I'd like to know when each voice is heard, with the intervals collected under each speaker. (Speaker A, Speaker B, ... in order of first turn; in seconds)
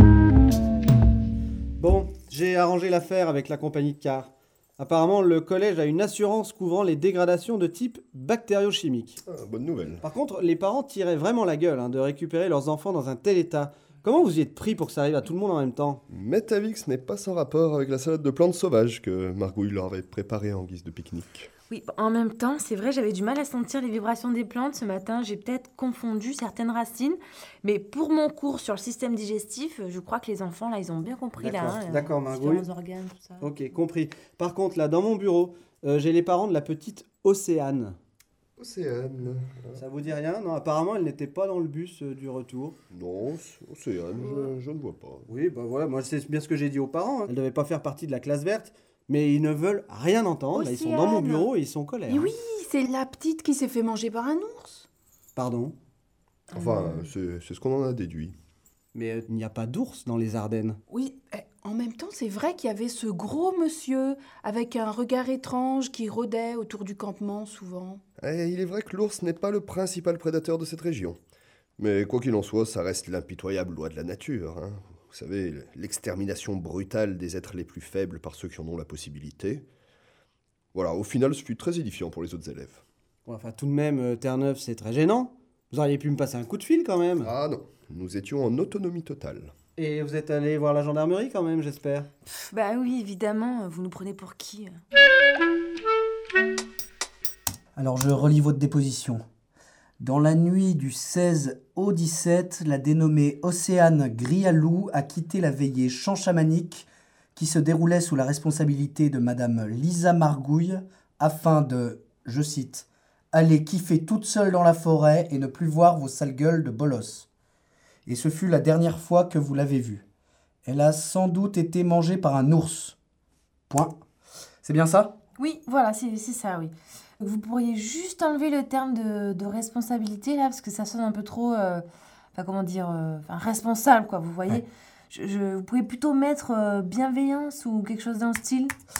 Speaker A: 1.8-9.2, 10.0-16.0, 31.4-32.7, 33.4-38.0, 39.8-42.8, 45.3-52.3, 55.4-55.7, 58.9-60.8, 83.2-87.3, 89.8-92.1
Speaker B: 9.3-10.0, 16.1-21.5, 38.6-39.8, 42.9-45.2, 56.5-58.3, 68.2-71.2, 71.8-79.6, 80.7-82.8, 87.2-89.5
Speaker C: 21.7-33.5, 92.2-94.7, 125.4-131.8, 132.3-138.7
Speaker D: 50.5-51.4, 52.1-54.9, 60.9-68.0
Speaker E: 97.8-99.2, 100.0-117.3, 118.0-120.0, 120.7-123.0, 123.7-124.0, 124.6-125.1